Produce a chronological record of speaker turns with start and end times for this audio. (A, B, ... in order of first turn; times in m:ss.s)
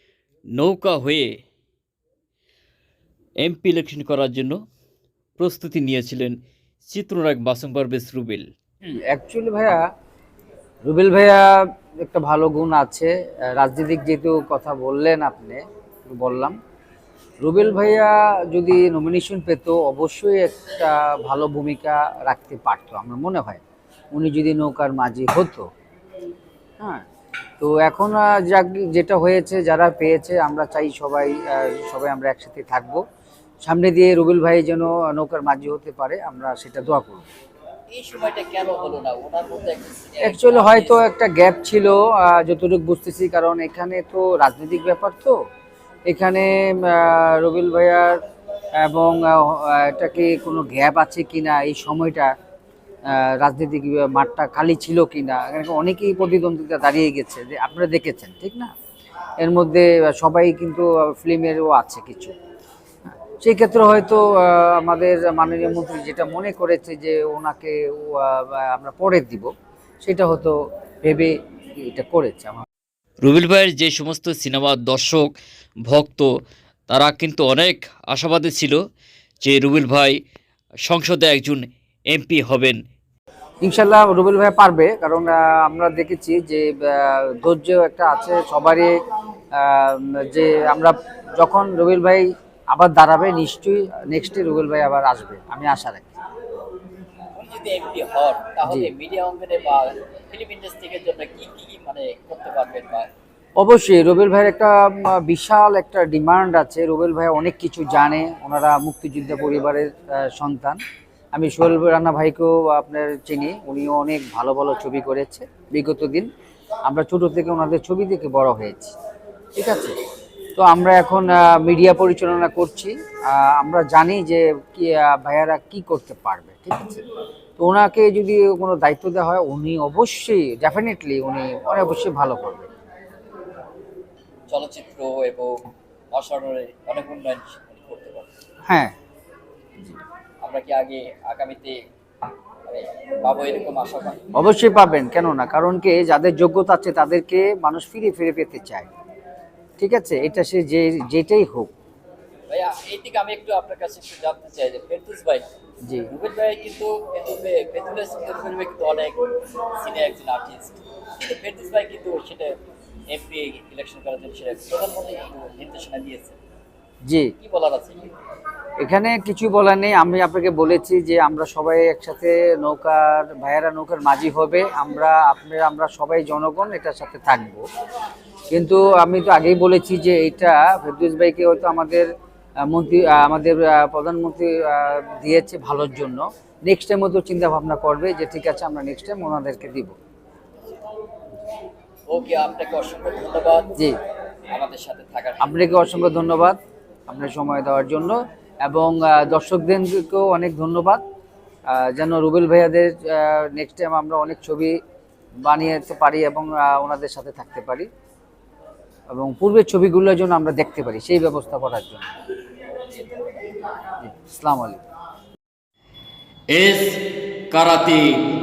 0:00.6-0:01.3 A
0:03.4-0:04.6 A
0:05.4-0:08.5 A
0:08.8-0:09.9 B
0:10.8-0:16.6 B
0:17.4-0:23.6 B
0:24.1-0:25.7 B
0:26.8-0:27.0 B
0:27.6-0:33.0 B
0:33.6-0:37.3 B
0:37.9-0:41.1 C
0:40.2-0:45.4 B
0:46.1-0:48.2 B
0:48.8-0:52.3 B
0:53.1-0:58.7 B
0:59.4-1:02.4 B
1:03.4-1:09.5 B
1:10.0-1:12.6 B
1:13.2-1:15.3 A
1:15.9-1:16.3 A
1:16.9-1:18.8 A
1:19.4-1:20.2 A
1:20.9-1:22.8 A
1:23.6-1:28.9 B
1:29.6-1:36.2 B
1:37.3-1:43.1 C
1:38.7-1:38.9 B
1:43.6-1:50.8 B
1:51.3-1:56.3 B
1:56.9-1:59.0 B
1:59.6-2:00.0 B
2:00.6-2:07.0 B
2:07.6-2:12.7 B
2:14.5-2:18.3 C
2:18.7-2:18.9 B
2:20.4-2:21.8 C
2:22.7-2:24.2 C
2:24.3-2:28.9 B
2:29.8-2:31.7 B
2:32.5-2:35.4 C
2:35.8-2:36.1 B
2:36.1-2:42.5 C
2:43.1-2:46.4 C
2:47.1-2:47.3 B
2:47.4-2:48.1 C
2:48.8-2:57.6 B
2:58.5-3:02.1 B
3:02.7-3:10.0 B
3:12.1-3:13.9 C
3:14.5-3:15.6 C
3:15.4-3:16.6 B
3:17.1-3:21.0 B
3:21.7-3:24.8 B
3:25.5-3:27.9 B
3:29.1-3:32.1 B
3:32.8-3:33.3 C
3:34.0-3:34.8 B
3:36.5-3:37.0 A
3:37.5-3:38.2 A